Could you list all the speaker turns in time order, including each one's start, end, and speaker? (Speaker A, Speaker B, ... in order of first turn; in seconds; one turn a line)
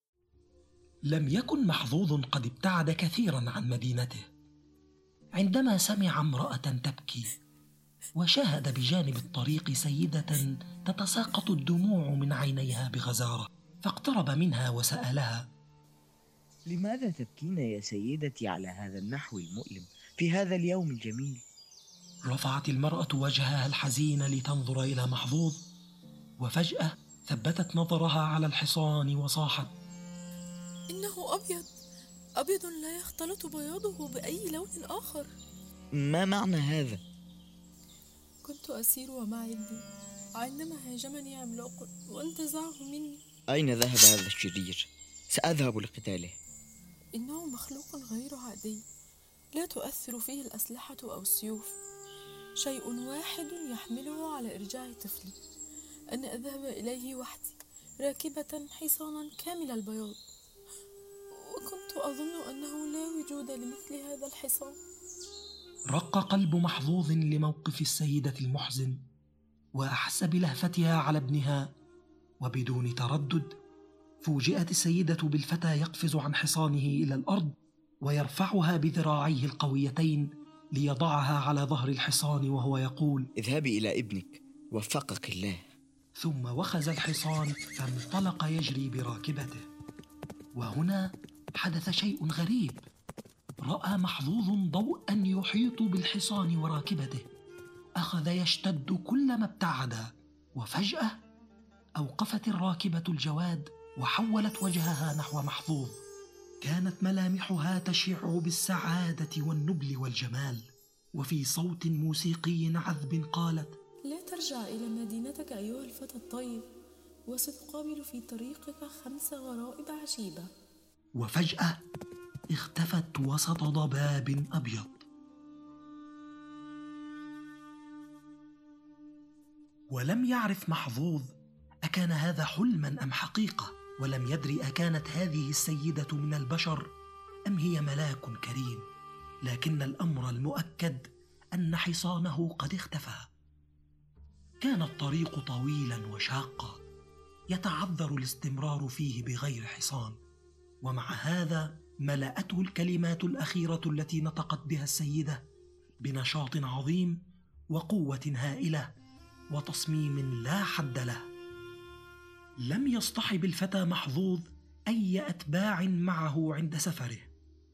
Speaker A: 1.1-4.3
Speaker A: 5.3-7.3
Speaker A: 8.2-15.4
Speaker B: 16.6-21.4
Speaker A: 22.2-25.6
Speaker A: 26.4-29.7
Speaker C: 30.9-31.7
Speaker C: 32.4-35.3
Speaker B: 35.9-37.0
Speaker C: 38.4-39.8
Speaker C: 40.4-43.2
Speaker B: 43.5-46.4
Speaker C: 47.1-48.8
Speaker C: 49.5-51.8
Speaker C: 52.6-55.4
Speaker C: 56.1-60.2
Speaker C: 61.3-64.8
Speaker A: 65.9-69.0
Speaker A: 69.7-71.7
Speaker A: 72.4-73.6
Speaker A: 74.2-83.3
Speaker B: 83.4-85.6
Speaker A: 86.2-89.7
Speaker A: 90.5-92.8
Speaker A: 93.6-97.2
Speaker A: 98.0-101.2
Speaker A: 102.0-106.0
Speaker A: 106.6-113.7
Speaker C: 114.1-116.7
Speaker C: 117.3-120.5
Speaker A: 121.2-121.8
Speaker A: 122.5-125.0
Speaker A: 129.9-131.3
Speaker A: 131.8-136.9
Speaker A: 137.5-138.8
Speaker A: 139.4-143.3
Speaker A: 144.6-146.8
Speaker A: 147.5-150.2
Speaker A: 150.8-155.4
Speaker A: 156.0-157.2
Speaker A: 157.7-158.9
Speaker A: 159.5-161.2
Speaker A: 162.6-167.3